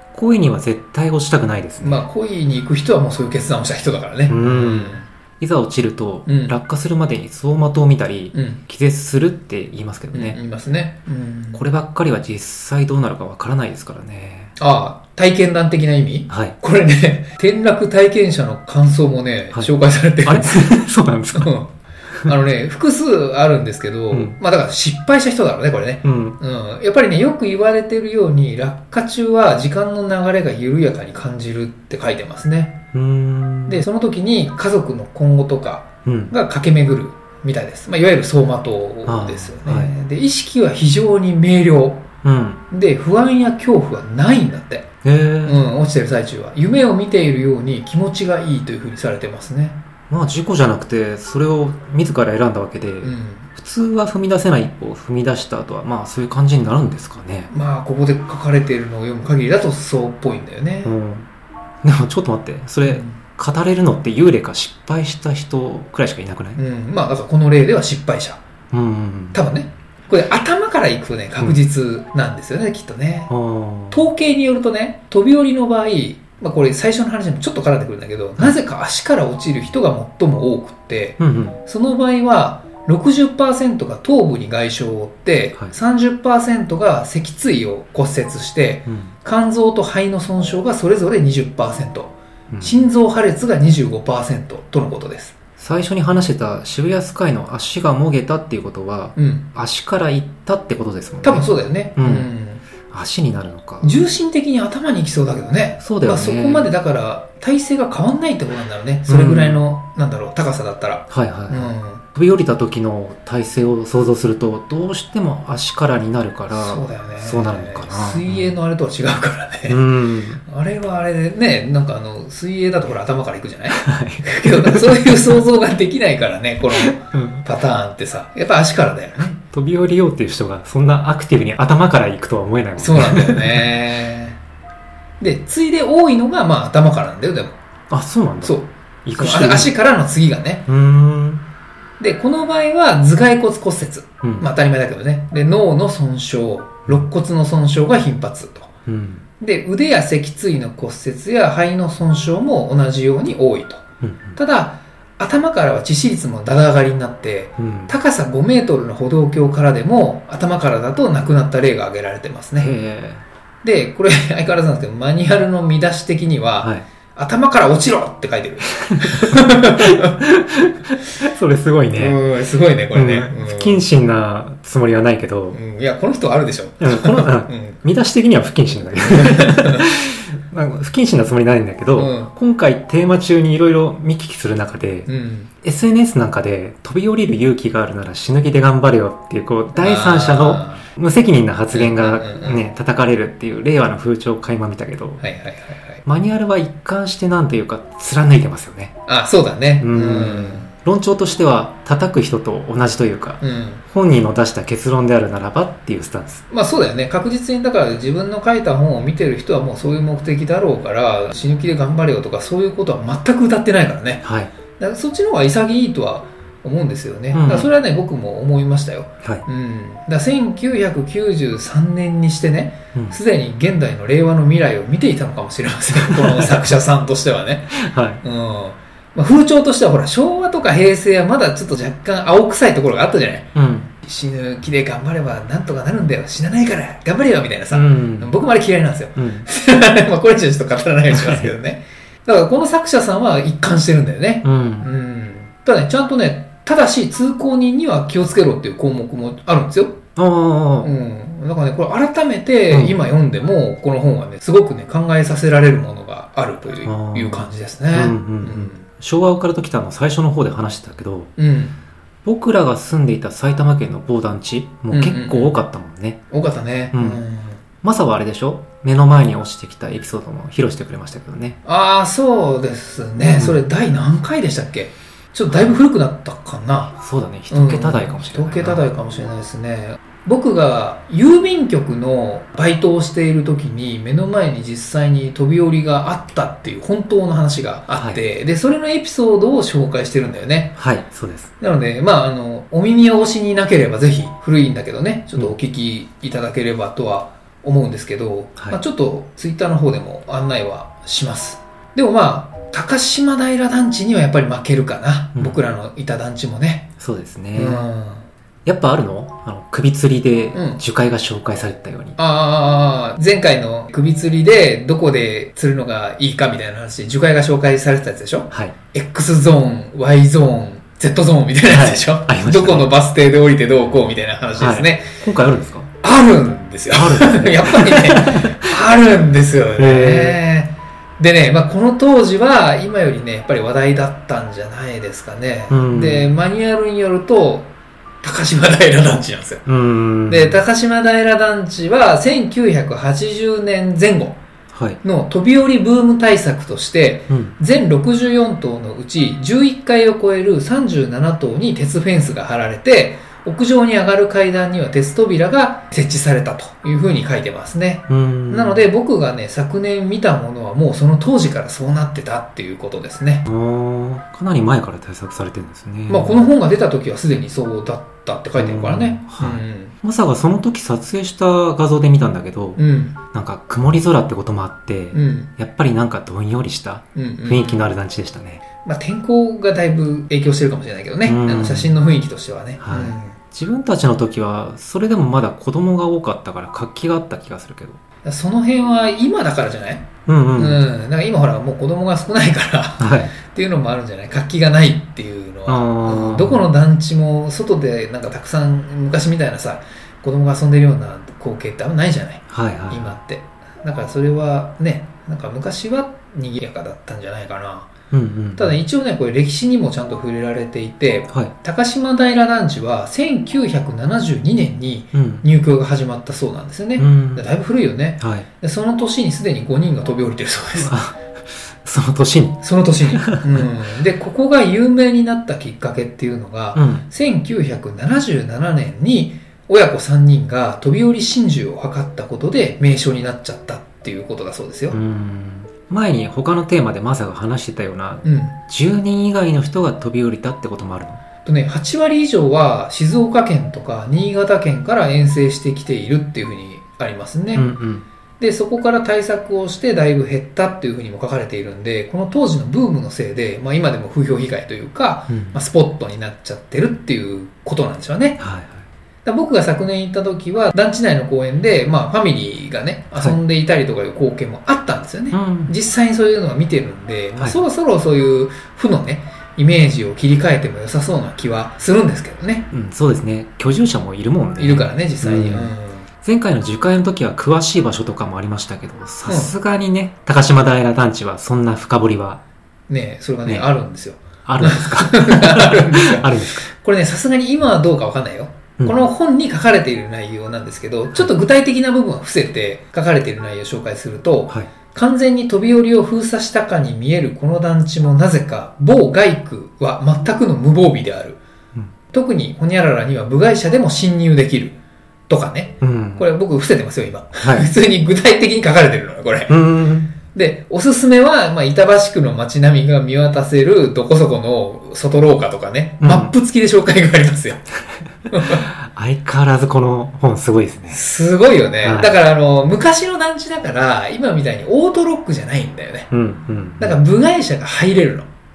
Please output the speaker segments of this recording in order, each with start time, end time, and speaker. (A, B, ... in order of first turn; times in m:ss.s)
0:00.1-0:02.0 A
0:01.8-0:05.1 B
0:04.3-0:10.4 A
0:06.3-0:06.6 B
0:08.3-0:08.6 B
0:10.1-0:11.6 B
0:11.5-0:14.6 A
0:14.6-0:20.8 B
0:16.3-0:16.6 A
0:20.2-0:21.5 A
0:21.3-0:21.7 B
0:22.2-0:32.8 B
0:24.1-0:24.4 A
0:26.0-0:26.4 A
0:32.9-0:33.9 A
0:33.7-0:42.1 B
0:36.0-0:36.3 A
0:39.1-0:39.9 A
0:42.2-0:42.6 A
0:42.7-0:44.9 B
0:45.0-0:45.6 A
0:45.4-0:49.8 B
0:50.1-0:57.5 A
0:53.0-0:53.5 B
0:57.5-1:01.0 B
1:00.8-1:01.3 A
1:01.8-1:06.6 A
1:02.9-1:03.2 B
1:06.6-1:08.4 B
1:08.7-1:09.4 A
1:09.3-1:13.3 B
1:13.3-1:14.1 A
1:13.9-1:35.4 B
1:21.2-1:21.6 A
1:28.9-1:29.1 A
1:32.5-1:32.8 A
1:35.6-1:42.3 A
1:39.2-1:39.4 B
1:41.2-1:42.6 B
1:42.8-1:44.0 A
1:43.8-1:52.0 B
1:45.8-1:46.7 A
1:49.1-1:49.6 A
1:51.1-1:58.6 A
1:56.5-1:59.9 B
1:59.7-2:00.4 A
2:00.4-2:09.4 B
2:03.7-2:05.4 A
2:06.7-2:07.4 A
2:09.3-2:13.7 A
2:12.8-2:14.4 B
2:15.2-2:17.6 B
2:17.9-2:19.7 A
2:18.4-2:20.7 B
2:20.7-2:21.5 A
2:22.0-2:28.7 B
2:24.2-2:24.5 A
2:28.9-2:29.2 A
2:29.4-2:33.8 B
2:34.0-2:34.4 A
2:34.4-2:42.7 B
2:37.6-2:38.0 A
2:42.6-2:43.2 A
2:43.6-2:50.1 B
2:48.8-2:52.2 A
2:52.0-2:53.8 B
2:52.9-2:55.6 A
2:55.5-2:57.8 B
2:56.8-3:05.1 A
2:59.1-2:59.9 B
3:02.0-3:02.3 B
3:05.1-3:05.5 B
3:05.6-3:15.2 A
3:09.8-3:10.9 B
3:11.7-3:12.6 B
3:15.2-3:16.0 B
3:16.0-3:19.0 A
3:19.1-3:20.7 B
3:19.8-3:26.4 A
3:23.4-3:23.8 B
3:26.5-3:34.2 B
3:34.2-3:34.5 A
3:34.8-4:10.0 B
3:37.3-3:37.7 A
3:45.9-3:46.8 A
3:47.7-3:48.2 A
3:53.6-3:53.9 A
3:57.7-3:58.3 A
3:59.2-3:59.5 A
4:01.1-4:01.5 A
4:04.4-4:04.9 A
4:10.2-4:10.9 A
4:10.8-4:18.8 B
4:12.7-4:13.0 A
4:16.8-4:21.3 A
4:21.4-4:21.8 B
4:22.2-4:26.2 A
4:24.9-4:25.6 B
4:26.3-4:27.6 B
4:26.9-4:27.2 A
4:27.8-4:31.6 A
4:31.6-4:37.0 B
4:33.3-4:33.6 A
4:37.0-4:38.8 A
4:37.5-4:50.8 B
4:47.9-4:48.2 A
4:50.8-4:51.5 A
4:51.6-5:06.9 B
5:05.4-5:05.6 A
5:07.0-5:07.9 A
5:07.6-5:08.2 B
5:08.6-5:12.2 A
5:10.5-5:10.8 B
5:12.2-5:25.2 B
5:18.5-5:18.8 A
5:21.7-5:22.9 A
5:24.6-5:25.9 A
5:26.0-5:39.6 B
5:26.9-5:28.8 A
5:29.8-5:30.4 A
5:35.7-5:36.3 A
5:39.7-5:40.6 A
5:40.3-5:44.4 B
5:44.7-5:45.0 A
5:45.0-6:03.5 B
5:47.3-5:47.6 A
5:58.1-5:58.8 A
6:03.5-6:06.4 A
6:06.1-6:10.0 B
6:08.6-6:18.6 A
6:12.8-6:13.2 B
6:15.1-6:15.5 B
6:17.2-6:17.9 B
6:18.8-6:23.4 B
6:21.2-6:21.9 A
6:22.8-6:28.0 A
6:28.2-6:47.9 B
6:30.3-6:30.8 A
6:33.0-6:33.3 A
6:35.7-6:36.7 A
6:42.5-6:43.1 A
6:48.1-6:48.8 A
6:48.6-7:01.0 B
6:55.1-6:55.4 A
6:57.0-6:57.5 A
6:58.2-6:58.5 A
7:00.7-7:02.6 A
7:02.6-7:15.0 B
7:03.2-7:03.7 A
7:06.8-7:07.1 A
7:14.9-7:21.2 A
7:18.2-7:18.6 B
7:21.4-7:27.7 B
7:27.6-7:28.0 A
7:28.4-7:38.4 B
7:35.3-7:35.6 A
7:38.4-7:38.9 A
7:39.2-7:52.7 B
7:45.3-7:45.7 A
7:52.7-8:02.4 A
7:54.6-7:56.1 B
8:02.9-8:21.4 B
8:04.4-8:06.7 A
8:08.8-8:09.1 A
8:22.1-8:24.8 B
8:25.3-8:29.6 B
8:25.8-8:26.2 A
8:27.4-8:27.7 A
8:29.5-8:30.1 A
8:30.2-8:37.6 B
8:36.0-8:36.3 A
8:38.3-8:38.6 B
8:38.5-8:41.0 A
8:40.9-8:46.1 B
8:41.8-8:42.2 A
8:46.1-8:47.0 A
8:46.8-8:48.3 B